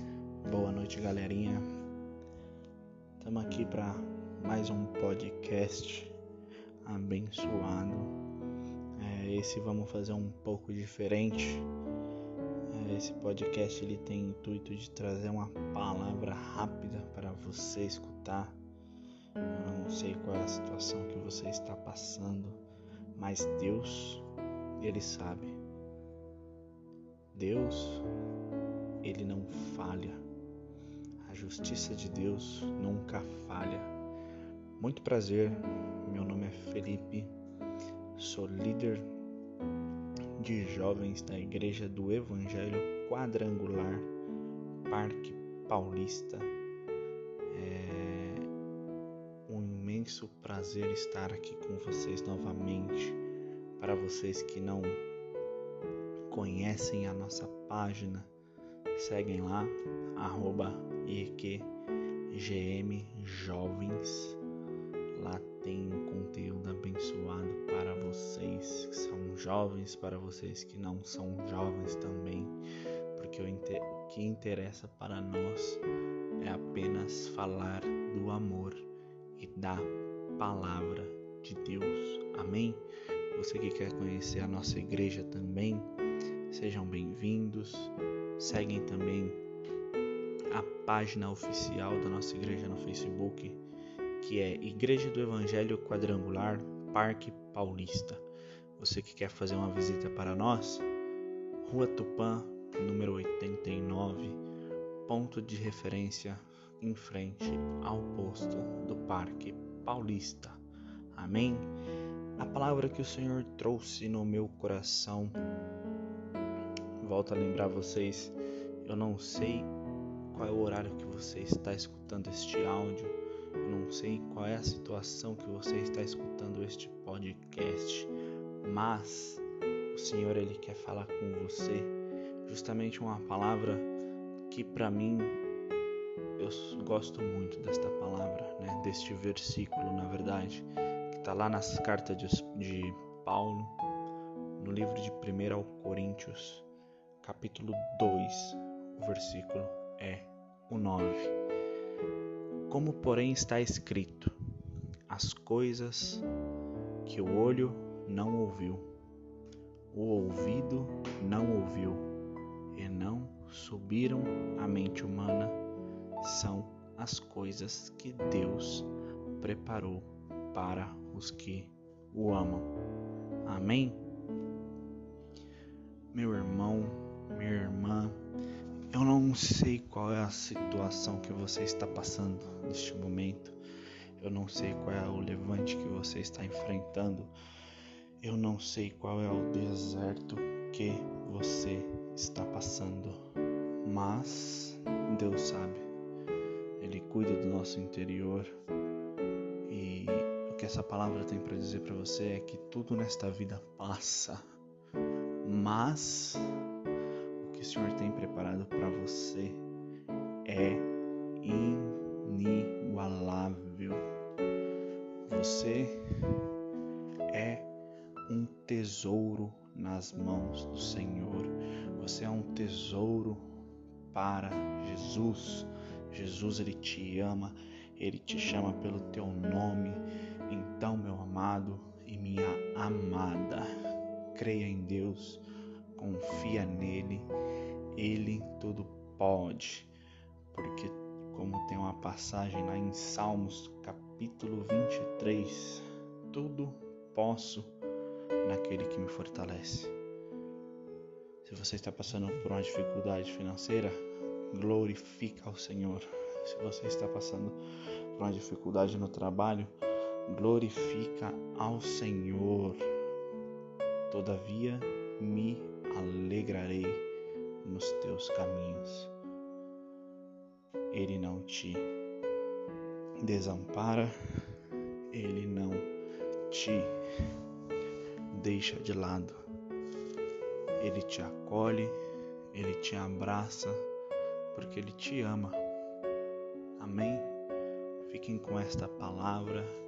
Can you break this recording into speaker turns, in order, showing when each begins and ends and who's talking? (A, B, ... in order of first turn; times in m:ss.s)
0:00.4-0:01.6 A
0:03.2-0:06.2 A
0:06.8-0:08.1 A
0:09.0-0:11.7 A
0:12.7-0:18.6 A
0:19.4-0:22.6 A
0:23.1-0:24.2 A
0:24.8-0:25.6 A
0:27.3-0:28.1 A
0:29.0-0:30.2 A
0:31.2-0:33.9 A
0:34.8-0:37.3 A
0:38.1-0:39.1 A
0:40.4-0:44.1 A
0:44.9-0:46.5 A
0:47.5-0:48.5 A
0:49.5-0:53.2 A
0:53.8-0:55.0 A
0:56.3-0:58.3 A
0:58.9-1:01.7 A
1:02.3-1:04.4 A
1:05.1-1:12.6 A
1:13.1-1:15.8 A
1:16.4-1:25.9 A
1:26.5-1:29.4 A
1:30.5-1:33.6 A
1:34.2-1:38.2 A
1:38.8-1:40.9 A
1:41.6-1:44.4 A
1:45.0-1:50.6 A
1:51.1-1:51.7 A
1:52.4-1:55.4 A
1:57.0-1:59.7 A
2:00.3-2:13.9 A
2:14.5-2:15.4 A
2:16.4-2:23.8 A
2:24.6-2:26.6 A
2:27.2-2:31.3 A
2:32.7-2:34.3 A
2:35.1-2:36.2 A
2:37.0-2:38.9 A
2:39.9-2:42.1 A
2:42.7-2:45.6 A
2:46.2-2:52.7 A
2:53.4-2:54.0 A
2:56.1-2:58.2 A
2:58.9-3:03.6 A
3:04.2-3:07.3 A
3:08.2-3:13.2 A
3:13.8-3:15.8 A
3:16.8-3:18.5 A
3:19.7-3:24.4 A
3:25.4-3:26.4 A
3:27.4-3:29.6 A
3:30.4-3:30.9 A
3:31.4-3:34.0 A
3:35.2-3:36.4 A
3:37.3-3:37.7 A
3:38.3-3:43.5 A
3:44.1-3:53.7 A
3:54.3-3:55.4 A
3:55.9-3:57.3 A
3:58.0-3:59.9 A
4:00.5-4:07.8 A
4:08.4-4:09.9 A
4:11.4-4:13.9 A
4:14.5-4:17.6 A
4:18.1-4:19.7 A
4:20.3-4:22.8 A
4:24.1-4:27.0 A
4:27.6-4:29.1 A
4:30.9-4:31.9 A
4:33.2-4:34.1 A
4:35.1-4:35.9 A
4:36.5-4:36.9 A
4:38.3-4:39.4 A
4:40.8-4:41.9 A
4:42.5-4:43.8 A
4:44.5-4:45.6 A
4:46.8-4:47.3 A
4:48.0-4:49.7 A